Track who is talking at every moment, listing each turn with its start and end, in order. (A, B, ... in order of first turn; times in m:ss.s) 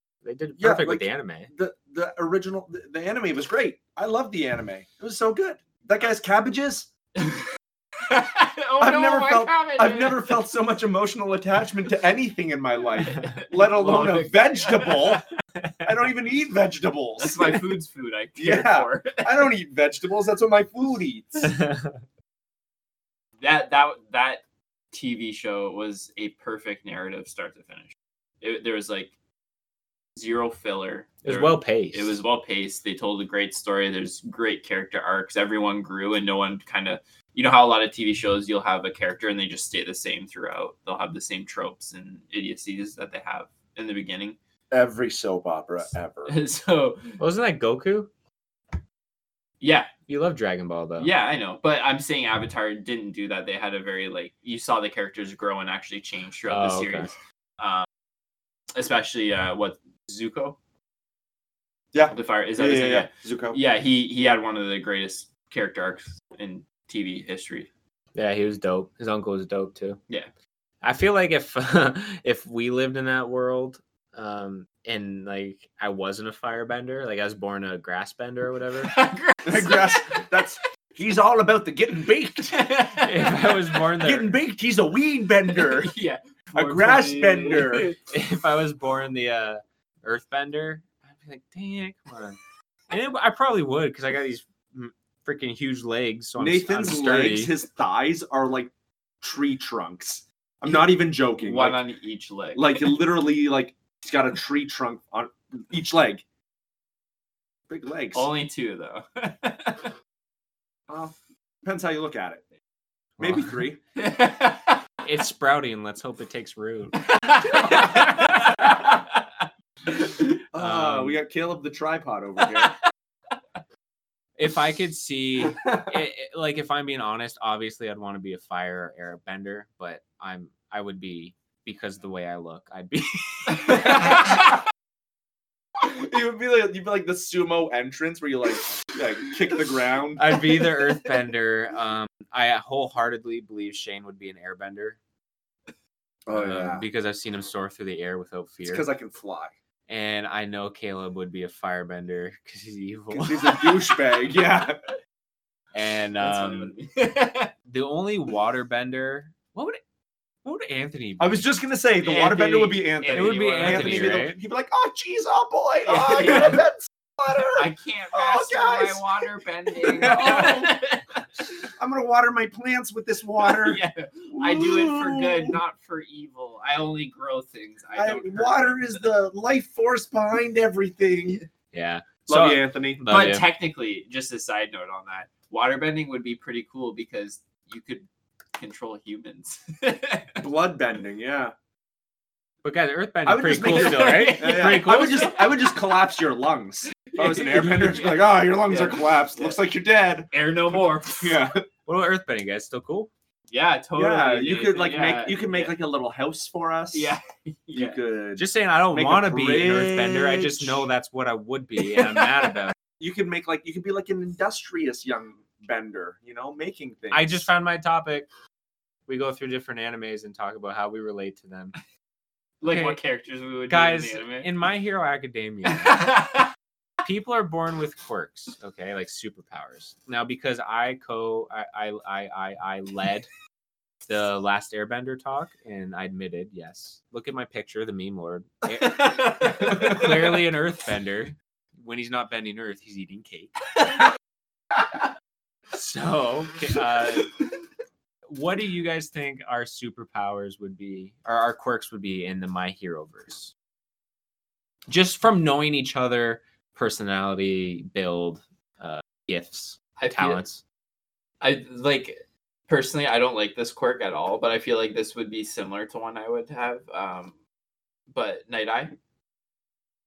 0:00.2-0:01.5 A
0:00.6-0:06.9 B
0:07.2-0:07.4 C
0:08.0-0:10.4 C
0:08.8-0:15.2 B
0:13.1-0:15.2 C
0:15.8-0:17.7 B
0:17.2-0:19.5 C
0:18.4-0:21.5 B
0:21.5-0:22.0 A
0:23.4-0:29.1 C
0:30.2-0:44.4 C
0:31.2-0:32.2 A
0:44.7-0:46.4 B
0:46.3-0:47.2 C
0:47.2-0:48.1 A
0:49.6-0:49.9 C
0:50.1-0:51.1 A
0:51.0-0:57.9 C
0:56.5-0:57.1 A
0:58.7-1:00.6 C
1:01.9-1:03.6 B
1:02.1-1:07.7 C
1:08.1-1:10.0 A
1:10.8-1:18.9 A
1:18.8-1:20.4 C
1:19.4-1:22.7 B
1:22.4-1:23.8 C
1:23.0-1:24.4 A
1:24.0-1:25.9 B
1:25.5-1:28.0 C
1:26.5-1:27.9 B
1:28.1-1:32.4 A
1:32.9-1:37.5 A
1:36.4-1:38.7 B
1:39.2-1:41.8 B
1:41.4-1:42.9 C
1:42.5-1:46.2 B
1:47.7-1:48.3 B
1:48.1-1:49.9 C
1:50.9-1:52.4 B
1:53.2-1:53.6 A
1:53.2-1:53.8 B
1:54.0-1:54.8 C
1:55.0-1:57.0 A
1:57.1-1:59.0 C
2:00.5-2:02.8 B
2:00.6-2:01.2 A
2:04.4-2:14.0 A
2:15.8-2:20.4 B
2:20.2-2:25.0 A
2:26.3-2:26.8 B
2:26.3-2:28.9 A
2:28.6-2:29.5 B
2:29.9-2:33.9 A
2:33.1-2:34.9 B
2:35.7-2:36.7 A
2:36.2-2:37.5 C
2:37.7-2:39.8 A
2:40.4-2:41.4 A
2:41.2-2:49.2 B
2:42.0-2:44.2 C
2:43.1-2:44.4 A
2:45.9-2:46.6 C
2:47.4-2:51.2 C
2:49.7-2:50.8 B
2:51.6-2:53.8 B
2:53.4-2:59.0 C
2:54.3-2:55.6 B
2:57.9-3:01.4 B
3:01.7-3:03.4 A
3:02.3-3:03.0 B
3:03.1-3:10.4 C
3:10.4-3:11.5 B
3:12.6-3:15.3 A
3:13.2-3:20.3 B
3:13.6-3:15.4 C
3:17.1-3:19.6 C
3:20.3-3:21.5 C
3:21.1-3:21.6 B
3:21.8-3:23.1 A
3:23.5-3:25.7 C
3:24.0-3:27.1 B
3:26.9-3:28.0 C
3:27.7-3:30.8 B
3:28.4-3:32.7 A
3:33.0-3:37.5 B
3:37.1-3:38.3 A
3:39.1-3:41.7 A
3:42.6-3:44.5 C
3:42.6-3:43.0 A
3:43.7-3:46.1 A
3:45.7-3:46.5 C
3:47.0-3:53.3 A
3:54.1-4:03.6 A
3:58.8-4:00.3 C
4:05.7-4:07.4 A
4:08.3-4:13.5 A
4:14.9-4:20.6 A
4:20.0-4:20.4 C
4:21.4-4:27.3 C
4:28.1-4:28.9 C